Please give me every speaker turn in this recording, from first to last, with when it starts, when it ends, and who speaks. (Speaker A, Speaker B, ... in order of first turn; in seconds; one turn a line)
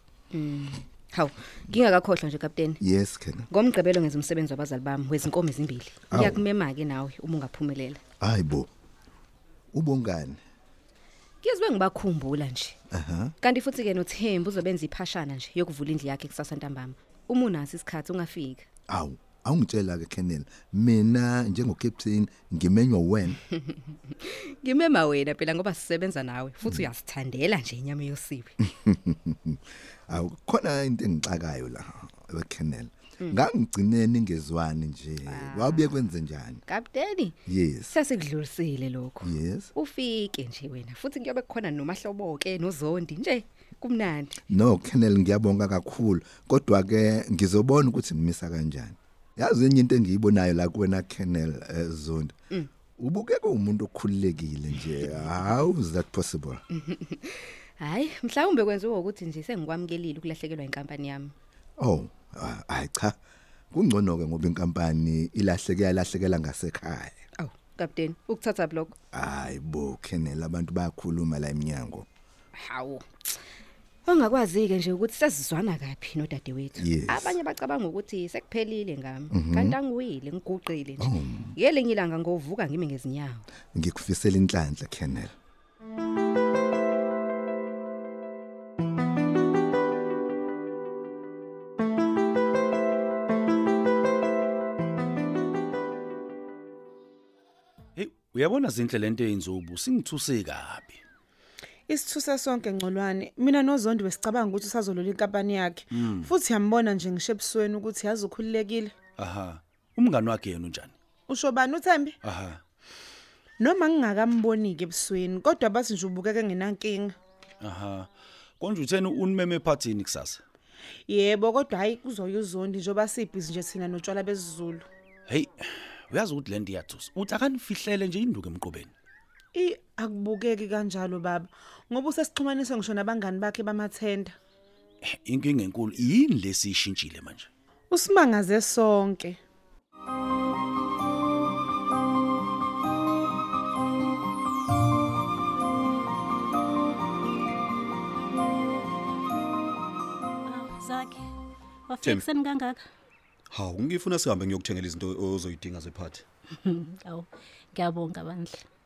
Speaker A: 0.3-2.8
Speaker B: 2.8-3.5
Speaker A: 3.5-8.0
Speaker B: 6.1-6.4
Speaker B: 8.2-8.7
Speaker B: 9.7-10.4
Speaker A: 11.4-12.8
Speaker B: 12.9-13.3
Speaker A: 13.4-18.7
Speaker B: 18.9-23.4
Speaker A: 23.5-28.6
Speaker B: 28.6-36.6
Speaker A: 35.3-36.0
Speaker A: 36.7-44.4
Speaker B: 37.5-37.9
Speaker B: 39.2-39.7
Speaker B: 44.5-52.3
Speaker B: 53.0-56.6
Speaker A: 56.7-61.3
Speaker B: 61.8-63.1
Speaker B: 63.7-67.2
Speaker A: 67.4-69.0
Speaker B: 69.1-72.0
Speaker A: 72.5-73.1
Speaker A: 74.0-83.5
Speaker B: 76.8-77.4
Speaker B: 79.3-79.8
Speaker B: 81.0-81.5
Speaker B: 83.7-85.3
Speaker C: 98.0-101.0
Speaker D: 101.9-108.9
Speaker C: 106.0-106.3
Speaker C: 109.2-110.9
Speaker D: 111.3-112.2
Speaker C: 112.2-112.6
Speaker D: 113.6-117.1
Speaker C: 117.6-118.1
Speaker C: 118.6-120.4
Speaker D: 121.1-124.8
Speaker C: 125.3-125.5
Speaker C: 126.1-128.9
Speaker D: 129.5-134.3
Speaker C: 135.0-137.5
Speaker D: 137.9-139.4
Speaker E: 150.4-151.3
Speaker E: 151.9-152.8
Speaker F: 153.5-156.2
Speaker E: 156.6-158.6